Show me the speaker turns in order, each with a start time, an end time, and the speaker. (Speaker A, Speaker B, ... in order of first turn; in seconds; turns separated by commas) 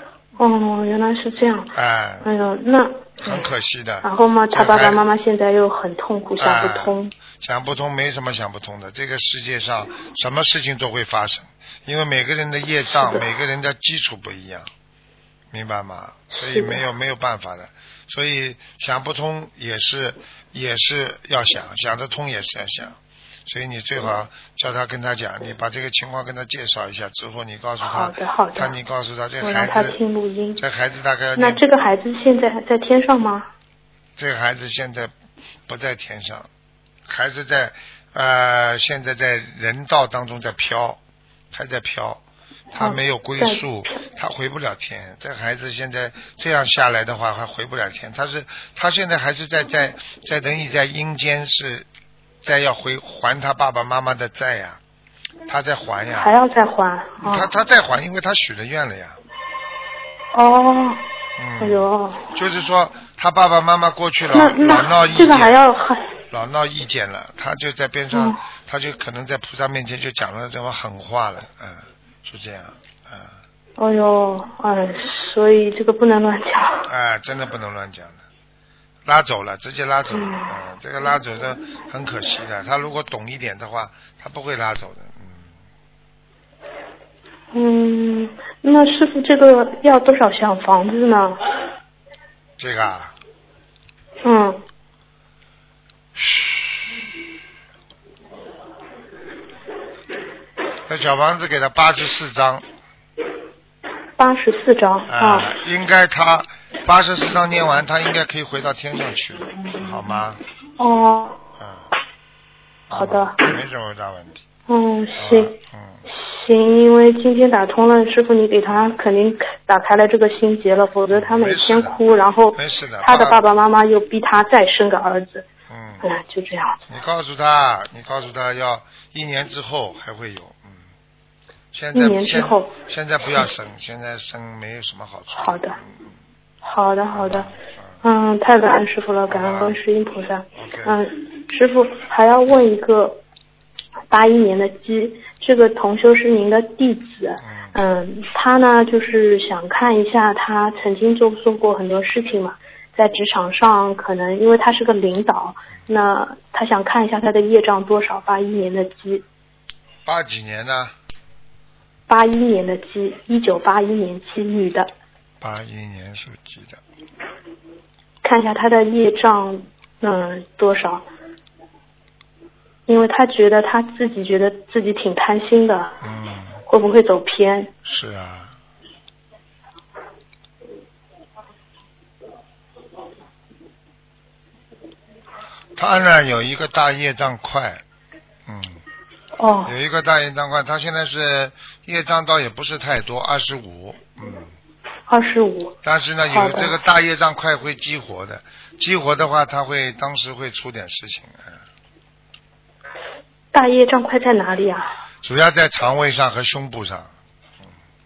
Speaker A: 0.4-1.7, Speaker B: 1.7-2.2, Speaker A: 2.2-3.5, Speaker B: 3.2-5.0, Speaker A: 4.0-7.1, Speaker B: 6.4-14.7, Speaker A: 12.9-13.3, Speaker B: 15.5-29.9, Speaker A: 16.4-16.8, Speaker A: 27.8-28.7, Speaker A: 29.4-30.6, Speaker B: 30.6-31.6, Speaker A: 31.4-33.5, Speaker B: 34.1-35.1, Speaker B: 35.7-36.5, Speaker B: 37.1-41.0, Speaker B: 41.5-42.2, Speaker B: 42.7-51.9, Speaker A: 42.8-44.0, Speaker B: 52.4-54.8, Speaker B: 55.5-56.3, Speaker A: 56.2-57.5, Speaker B: 57.2-59.2, Speaker A: 60.3-61.0, Speaker B: 61.4-65.5, Speaker A: 61.6-62.2, Speaker A: 64.3-66.0, Speaker B: 66.3-73.3, Speaker A: 68.1-68.4, Speaker A: 73.8-76.9, Speaker B: 76.9-78.2, Speaker B: 79.0-85.5, Speaker A: 80.1-80.5, Speaker A: 87.5-91.4, Speaker B: 92.6-93.1, Speaker A: 94.2-94.6, Speaker B: 96.2-96.8, Speaker B: 100.9-102.6, Speaker A: 104.2-105.5, Speaker B: 105.1-110.4, Speaker A: 109.7-110.2, Speaker A: 110.8-111.4, Speaker B: 111.6-111.8, Speaker B: 112.9-114.4, Speaker A: 112.9-113.4, Speaker A: 114.7-115.5, Speaker B: 115.2-116.0, Speaker A: 116.1-125.4, Speaker B: 121.1-122.0, Speaker B: 122.5-123.4, Speaker B: 125.7-126.0, Speaker A: 126.0-126.8, Speaker B: 126.9-130.8, Speaker B: 131.7-136.0, Speaker A: 131.9-132.7, Speaker A: 135.3-135.8, Speaker A: 136.6-137.5, Speaker B: 137.1-138.0, Speaker A: 138.0-143.2, Speaker B: 139.3-139.8, Speaker B: 140.6-141.0, Speaker A: 144.1-159.2, Speaker B: 147.4-147.7, Speaker B: 160.1-160.9, Speaker A: 162.1-164.9, Speaker B: 165.4-166.8, Speaker A: 168.2-171.0, Speaker A: 172.9-176.0, Speaker B: 176.0-176.6, Speaker A: 176.7-177.7, Speaker B: 177.8-178.6, Speaker B: 185.8-187.8, Speaker B: 188.4-188.8, Speaker A: 189.4-189.7, Speaker B: 189.7-194.5, Speaker A: 195.1-195.8, Speaker B: 195.8-201.6, Speaker A: 196.3-196.8, Speaker A: 203.5-204.9, Speaker B: 205.2-207.1